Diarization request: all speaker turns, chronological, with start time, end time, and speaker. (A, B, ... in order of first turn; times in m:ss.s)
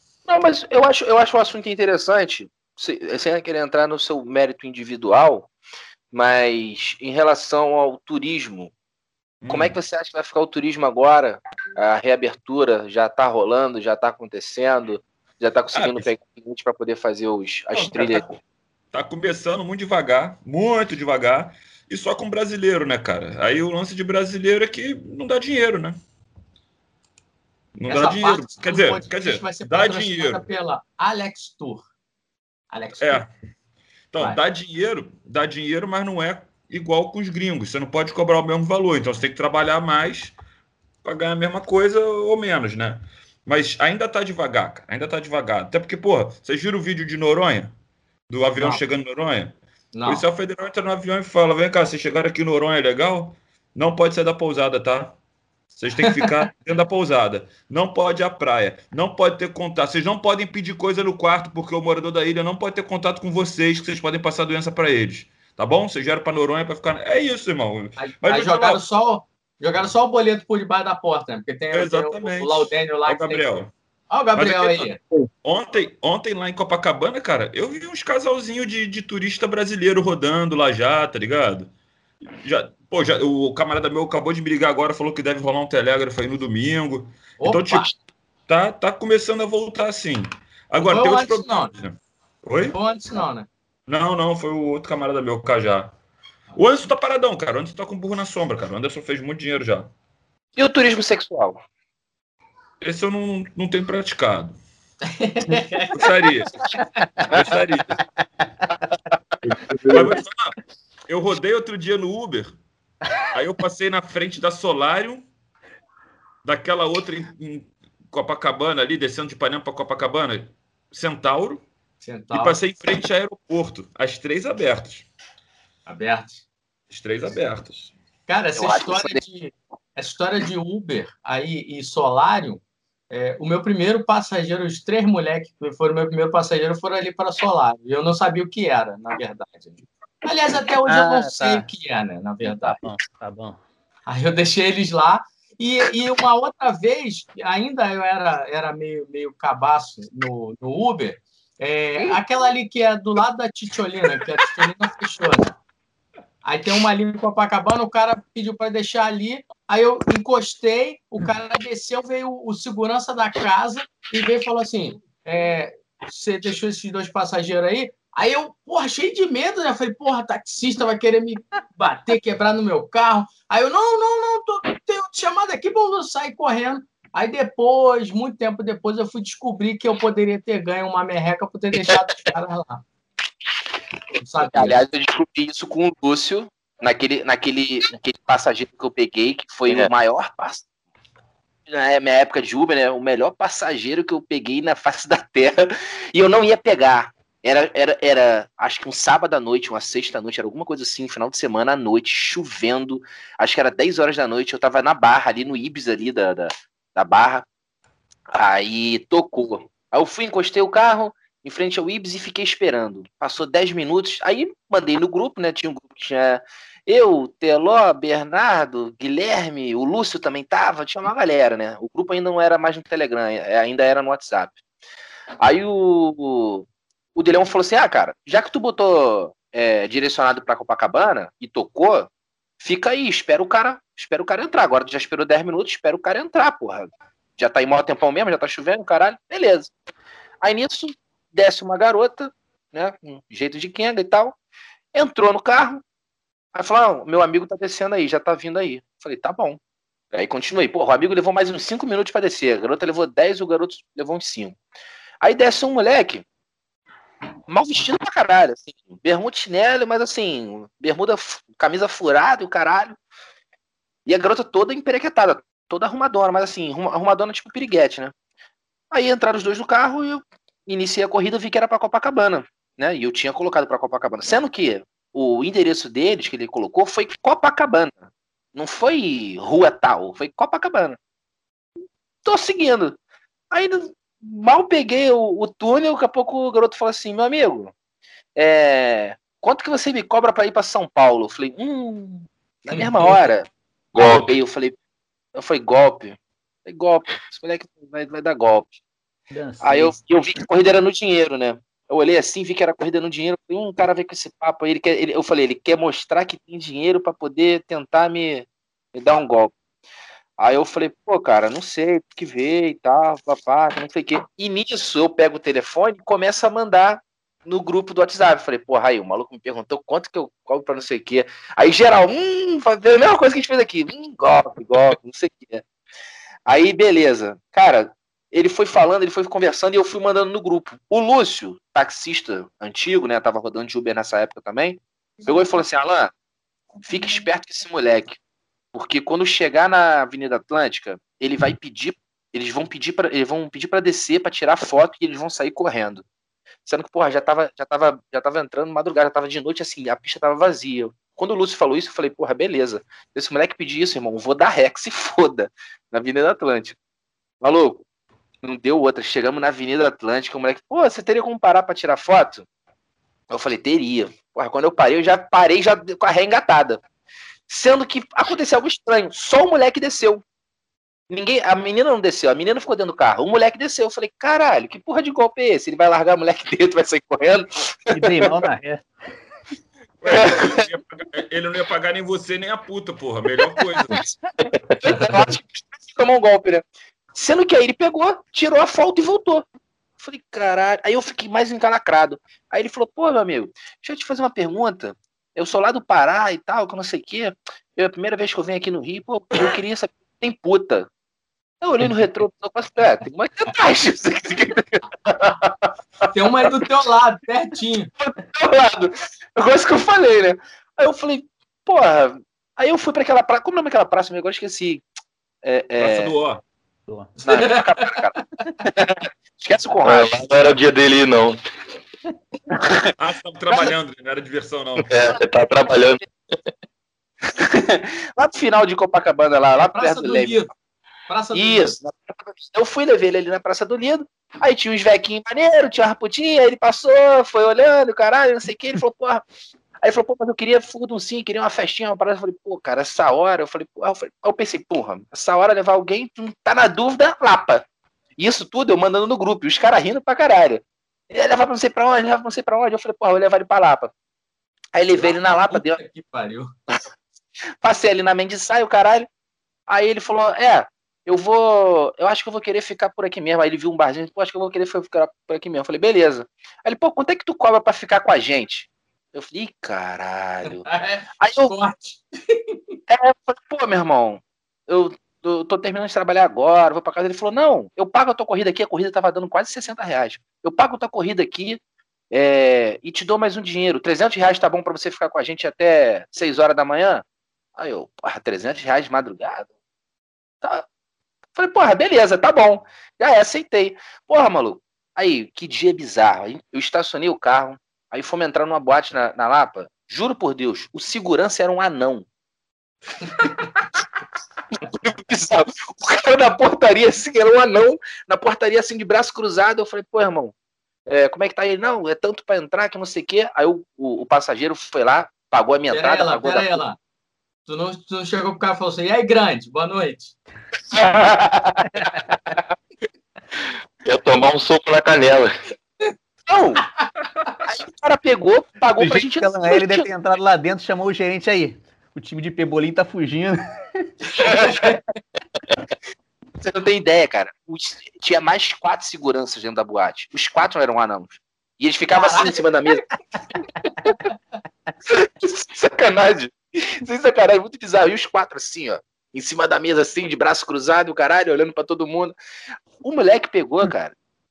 0:00.3-0:05.5 A
0:06.1-0:08.7 A
0:09.4-0:09.8 B
0:09.5-0:18.4 A
0:15.7-0:16.1 B
0:17.7-0:18.2 B
0:18.9-0:26.0 B
0:27.8-0:30.4 B
0:27.9-0:31.8 C
0:32.7-0:33.2 C
0:33.0-0:33.3 B
0:34.1-0:40.3 B
0:41.0-0:47.7 B
0:48.3-0:49.6 B
0:49.9-0:50.2 C
0:50.1-0:55.1 B
0:55.7-1:08.8 B
1:08.0-1:13.5 C
1:11.7-1:13.7 B
1:14.1-1:15.0 C
1:14.4-1:21.7 B
1:22.4-1:27.9 B
1:27.4-1:27.8 C
1:28.5-1:32.8 B
1:30.8-1:31.7 C
1:32.7-1:33.5 C
1:33.9-1:35.9 B
1:36.5-1:39.9 B
1:40.6-1:41.6 A
1:42.8-1:44.6 B
1:45.1-1:46.0 C
1:45.9-1:46.5 B
1:47.2-1:48.0 B
1:49.5-1:50.1 D
1:49.9-1:50.6 B
1:51.1-1:52.5 B
1:53.3-1:55.2 B
1:56.4-2:01.6 B
2:02.0-2:02.6 C
2:02.3-2:05.0 B
2:05.9-2:06.4 C
2:06.9-2:07.9 B
2:08.3-2:22.8 C
2:08.6-2:09.2 A
2:20.8-2:21.7 E
2:22.4-2:23.6 E
2:24.1-2:35.6 C
2:36.4-3:02.8 C
3:04.2-3:04.8 C
3:04.5-3:10.6 A
3:11.7-3:27.4 A
3:28.3-3:44.6 A
3:45.4-3:52.1 A
3:52.6-3:59.7 A
4:00.4-4:04.4 A
4:04.9-4:05.8 A
4:06.5-4:09.6 A
4:10.1-4:14.6 A
4:15.2-4:16.2 A
4:17.5-4:23.0 A
4:24.0-4:28.1 A
4:28.9-4:38.0 A
4:38.5-4:41.0 A
4:42.2-4:43.0 A
4:43.5-4:47.7 A
4:48.4-4:54.8 A
4:52.7-4:53.2 C
4:54.0-4:54.3 D
4:55.3-4:58.7 A
4:59.3-5:00.0 E
4:59.6-5:09.5 A
5:10.4-5:25.6 A
5:26.5-5:36.1 A
5:36.8-5:38.2 A
5:38.7-5:46.0 A
5:46.6-5:56.8 A
5:57.4-5:57.8 A
5:58.4-6:02.4 A
6:03.3-6:06.8 A
6:07.5-6:10.2 A
6:11.1-6:18.3 A
6:17.9-6:18.8 E
6:20.0-6:24.0 B
6:20.1-6:20.6 A
6:24.0-6:24.9 D
6:24.8-6:29.4 A
6:30.0-6:40.9 A
6:41.6-6:46.1 A
6:46.1-6:47.9 C
6:48.0-6:54.8 A
6:55.4-6:56.1 A
6:55.8-6:56.4 B
6:57.2-6:58.0 C
6:57.2-7:00.6 A
6:59.8-7:01.4 D
7:02.5-7:02.8 A
7:03.0-7:04.9 B
7:04.8-7:06.0 D
7:05.6-7:05.9 A
7:07.3-7:10.4 A
7:09.6-7:10.5 C
7:11.1-7:11.7 C
7:11.3-7:19.2 A
7:19.8-7:27.6 A
7:28.2-7:33.9 A
7:34.7-7:35.8 A
7:35.0-7:36.5 C
7:37.6-7:39.1 A
7:39.7-7:51.5 A
7:50.5-7:52.8 C
7:52.9-8:01.6 A
8:02.1-8:07.0 A
8:07.6-8:09.5 A
8:11.4-8:22.0 A
8:23.0-8:23.5 C
8:24.6-8:30.3 A
8:30.9-8:36.6 A
8:35.7-8:36.8 C
8:37.4-8:40.1 C
8:40.7-8:41.9 A
8:43.8-8:45.3 D
8:46.3-8:46.6 A
8:47.4-8:49.8 A
8:48.8-8:53.9 E
8:54.2-8:54.8 C
8:54.3-8:54.6 A
8:56.4-9:02.8 A
9:01.9-9:02.4 C
9:04.8-9:12.1 A
9:12.8-9:13.9 A